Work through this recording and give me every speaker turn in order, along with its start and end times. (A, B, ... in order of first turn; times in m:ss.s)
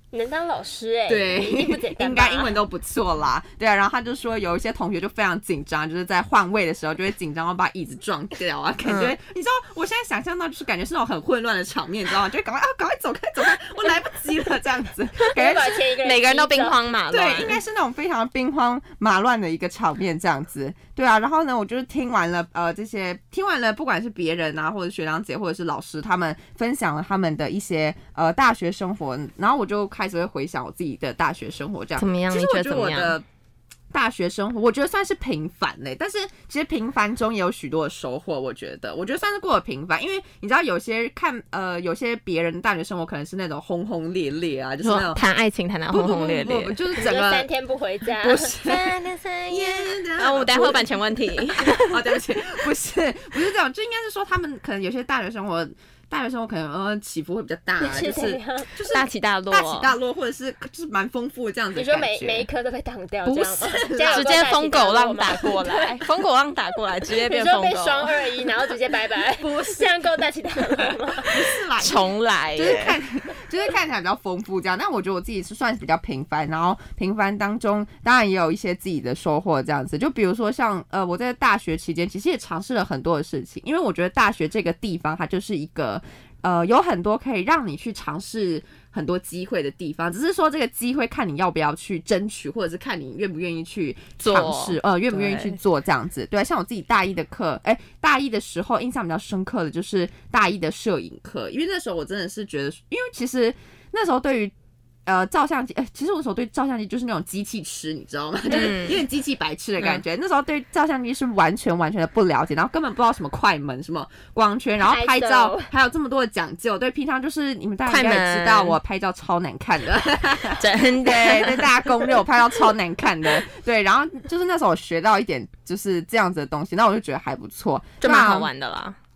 0:00.1-0:02.6 A
0:01.1-0:15.9 B
0:08.8-0:09.2 C
0:15.3-0:16.9 A
0:16.0-0:17.6 C
0:17.1-0:33.2 B
0:32.0-0:33.2 C
0:33.9-0:45.2 B
0:44.8-0:46.8 C
0:45.9-0:47.5 B
0:47.0-0:48.5 A
0:48.1-0:49.0 B
0:48.6-0:52.0 C
0:49.5-0:51.0 B
0:51.6-1:02.5 B
0:57.8-0:58.7 A
0:58.9-0:59.9 C
1:01.8-1:06.1 A
1:03.2-1:04.4 B
1:04.1-1:08.3 C
1:07.0-1:11.4 A
1:09.4-1:09.9 B
1:10.7-1:44.5 B
1:11.8-1:13.0 C
1:34.2-1:35.6 C
1:45.1-2:08.5 B
1:48.5-1:49.0 C
1:54.8-1:55.7 A
1:57.9-1:58.8 C
2:00.6-2:02.0 C
2:08.0-2:09.0 C